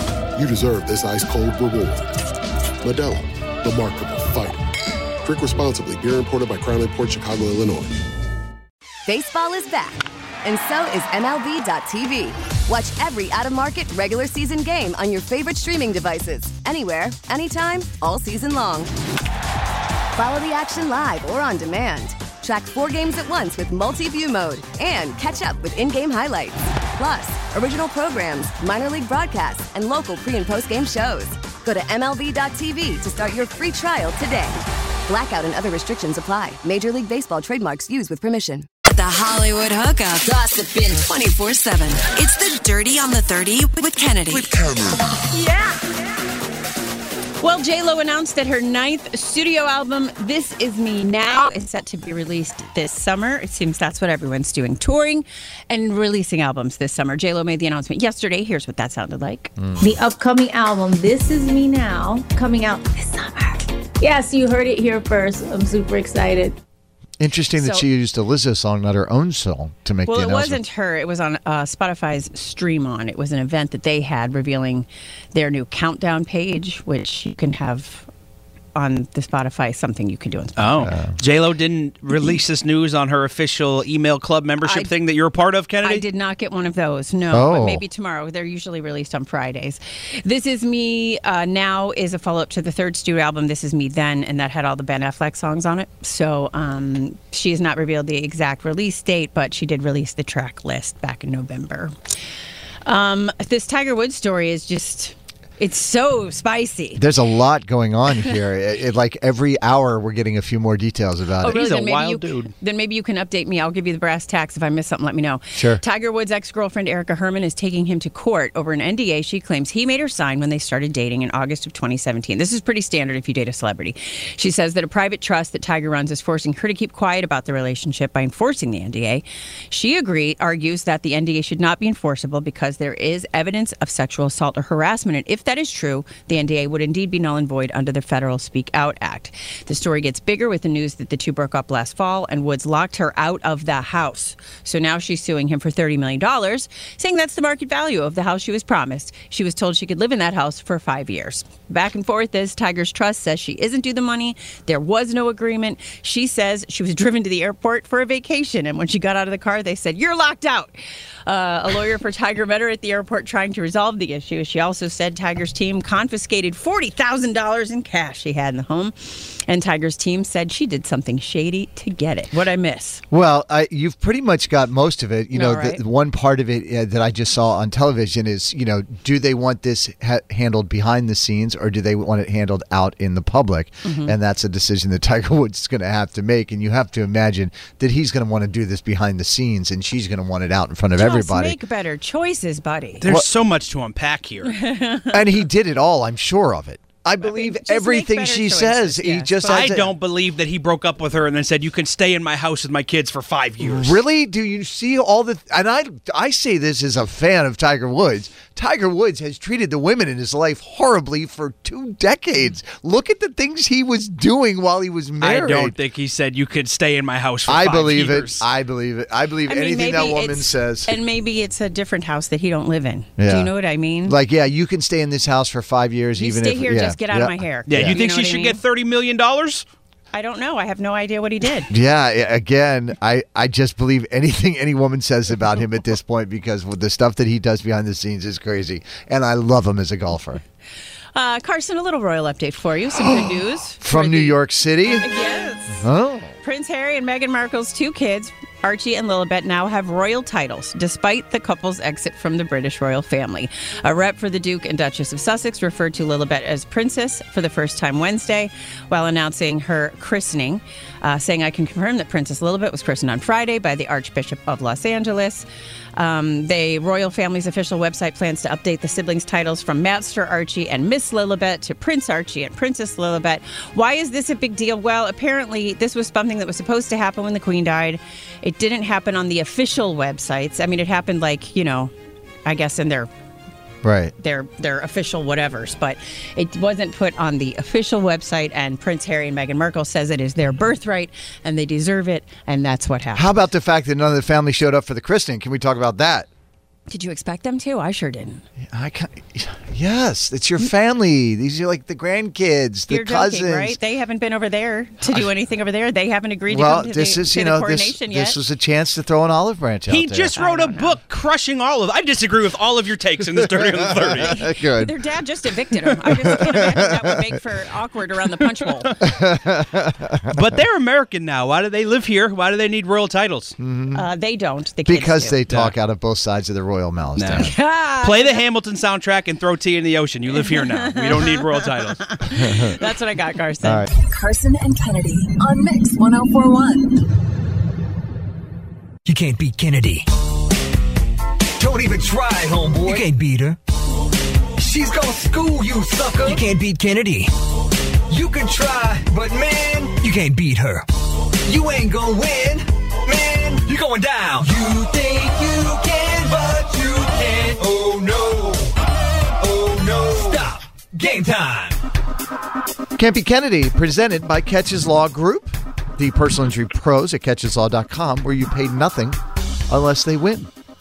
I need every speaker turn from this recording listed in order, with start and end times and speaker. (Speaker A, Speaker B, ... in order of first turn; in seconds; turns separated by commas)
Speaker A: 0.3-2.1, Speaker A: 2.8-4.6, Speaker A: 5.2-8.0, Speaker B: 9.1-18.9, Speaker B: 20.2-38.7, Speaker C: 38.9-44.7, Speaker D: 47.4-59.5, Speaker E: 59.6-59.9, Speaker F: 59.8-66.6, Speaker E: 67.2-70.6, Speaker D: 67.6-67.8, Speaker D: 70.1-78.1, Speaker D: 78.8-80.9, Speaker G: 80.6-86.0, Speaker E: 80.8-81.2, Speaker D: 84.6-84.9, Speaker D: 85.8-101.9, Speaker E: 87.3-87.8, Speaker D: 102.8-107.0, Speaker E: 107.0-111.7, Speaker D: 111.4-173.0, Speaker G: 111.5-112.5, Speaker E: 115.6-115.8, Speaker E: 173.1-191.6, Speaker D: 175.3-175.8, Speaker D: 183.8-184.1, Speaker D: 191.0-193.1, Speaker G: 193.0-194.5, Speaker D: 194.5-195.1, Speaker E: 195.1-199.9, Speaker D: 197.2-199.8, Speaker G: 199.5-204.0, Speaker E: 203.6-215.8, Speaker G: 215.2-218.4, Speaker E: 217.5-221.0, Speaker D: 219.5-224.2, Speaker E: 223.2-223.5, Speaker E: 224.1-228.0, Speaker D: 226.2-228.6, Speaker G: 227.7-229.6, Speaker D: 230.1-231.7, Speaker E: 231.7-240.4, Speaker D: 241.2-245.8, Speaker E: 243.8-245.1, Speaker E: 245.8-246.3, Speaker D: 246.4-281.9, Speaker D: 282.4-283.1, Speaker E: 283.8-284.1, Speaker D: 284.2-293.4, Speaker E: 293.1-296.3, Speaker D: 296.9-298.4, Speaker E: 298.6-303.8, Speaker D: 302.9-308.4, Speaker E: 306.5-310.3, Speaker G: 309.9-314.3, Speaker D: 310.3-311.0, Speaker E: 313.4-314.9, Speaker D: 314.2-318.9, Speaker E: 316.1-317.2, Speaker E: 319.0-320.5, Speaker G: 320.3-323.6, Speaker E: 323.6-324.1, Speaker D: 323.9-325.4, Speaker E: 324.9-327.5, Speaker G: 325.5-325.7, Speaker G: 327.2-332.1, Speaker D: 327.4-328.4, Speaker D: 330.3-333.9, Speaker E: 332.4-332.8, Speaker E: 333.6-333.9, Speaker H: 334.2-336.9, Speaker I: 339.1-340.1, Speaker I: 341.6-343.6, Speaker I: 344.6-347.3, Speaker I: 348.1-350.9, Speaker I: 351.4-358.7, Speaker I: 359.4-361.8, Speaker E: 363.0-370.5